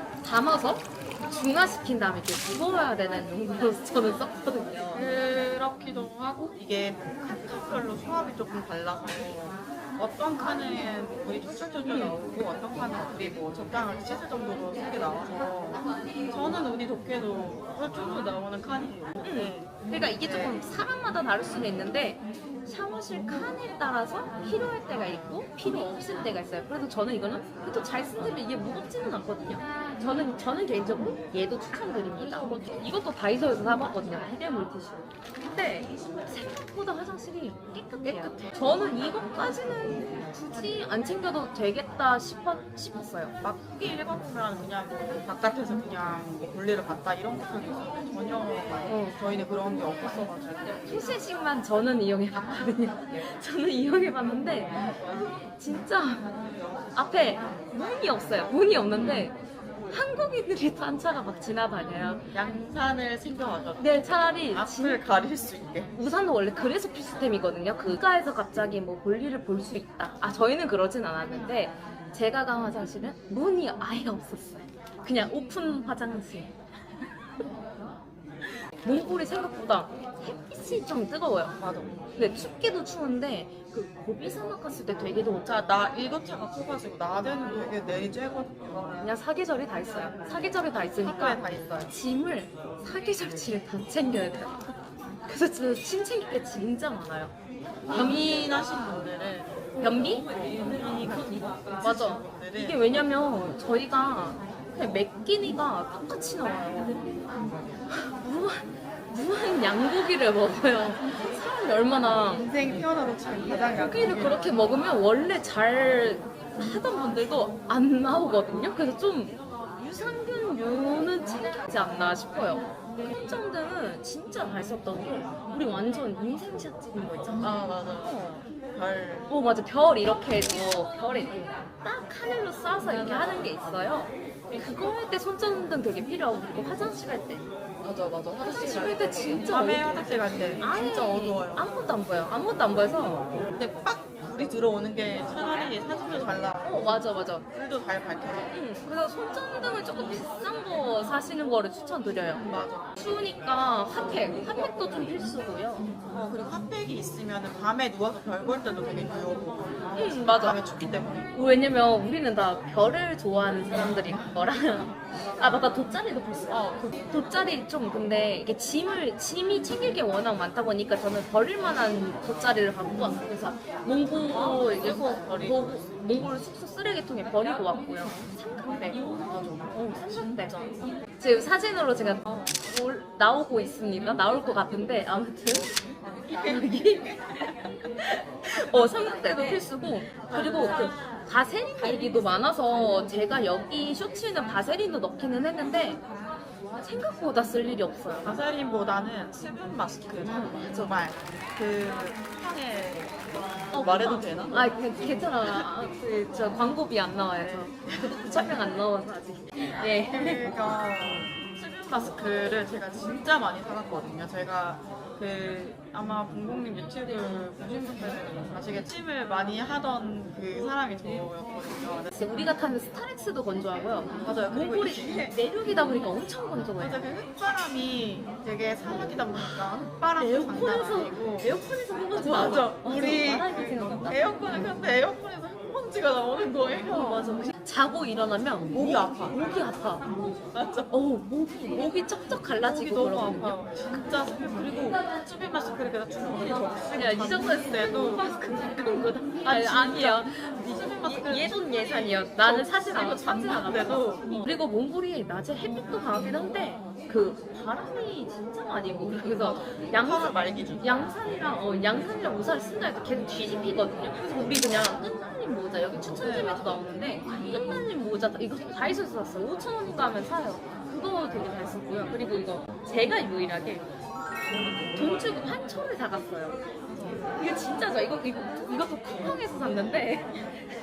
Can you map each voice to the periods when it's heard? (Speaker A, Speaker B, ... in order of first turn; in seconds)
Speaker A: 0.2-5.1, 11.9-12.2, 19.2-43.3, 48.9-49.2, 50.9-56.3, 56.9-59.3, 59.9-62.2, 63.8-65.0, 66.0-76.5, 78.8-81.5, 82.2-85.7, 89.0-94.6, 95.3-97.3, 97.9-98.5, 99.8-100.2, 101.8-106.9, 108.2-112.5, 113.8-128.4, 129.3-137.4, 138.4-143.3, 146.6-147.4, 148.5-152.5, 153.0-155.9, 160.0-160.6, 161.3-179.0, 179.7-180.5, 181.2-185.7, 186.3-196.0, 196.8-198.3, 200.2-200.9, 203.7-210.6, 222.2-227.0, 229.4-234.2, 236.9-240.0, 240.9-243.6, 246.9-273.9, 274.9-276.5, 277.4-280.3
Speaker B: 4.9-20.6, 32.4-32.7, 38.0-38.6, 43.4-50.6, 58.9-59.3, 62.3-65.9, 81.6-81.9, 85.5-89.2, 89.8-90.2, 91.0-91.9, 97.9-99.6, 100.3-102.8, 112.4-114.6, 127.4-129.3, 132.9-133.5, 137.8-141.7, 143.5-146.8, 147.5-148.5, 152.4-152.9, 156.1-161.3, 166.5-166.9, 174.3-175.8, 178.9-180.8, 190.3-190.9, 198.2-203.2, 203.7-204.7, 207.4-207.8, 210.1-222.2, 224.2-225.3, 226.8-231.5, 232.2-237.3, 238.7-239.4, 240.5-240.9, 242.6-248.2, 249.4-254.3, 259.4-261.0, 266.1-266.8